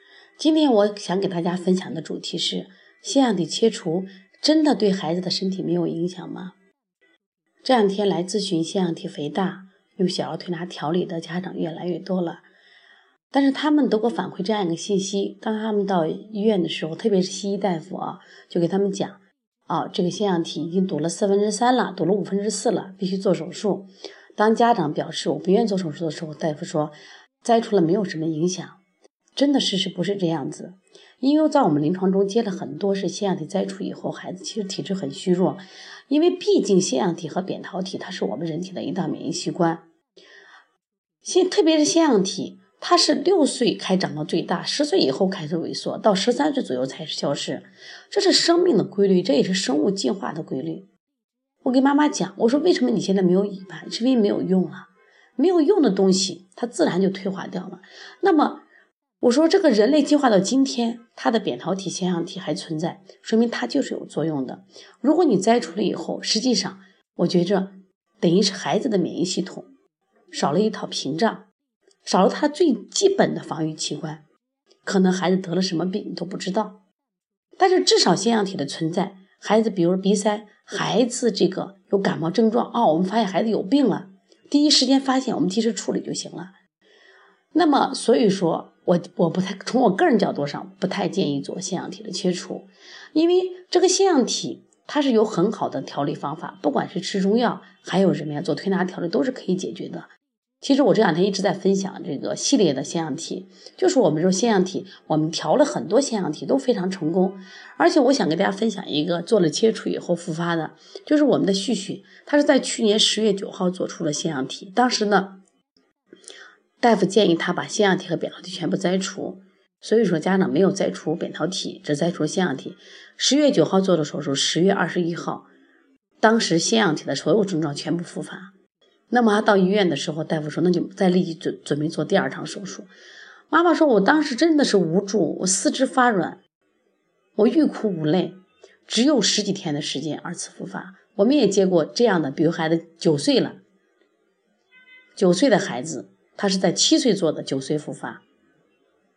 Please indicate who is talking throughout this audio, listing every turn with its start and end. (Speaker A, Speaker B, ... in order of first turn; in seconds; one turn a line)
Speaker A: 0.4-6.5
Speaker A: 7.6-12.4
Speaker A: 13.3-28.8
Speaker A: 29.4-39.8
Speaker A: 41.2-50.9
Speaker A: 51.6-58.6
Speaker A: 59.2-69.7
Speaker A: 70.3-71.5
Speaker A: 72.0-74.2
Speaker A: 74.8-76.8
Speaker A: 77.6-86.5
Speaker A: 87.5-100.1
Speaker A: 100.6-115.4
Speaker A: 116.8-125.5
Speaker A: 126.2-128.5
Speaker A: 129.1-132.9
Speaker A: 133.5-136.4
Speaker A: 137.3-143.6
Speaker A: 145.2-148.2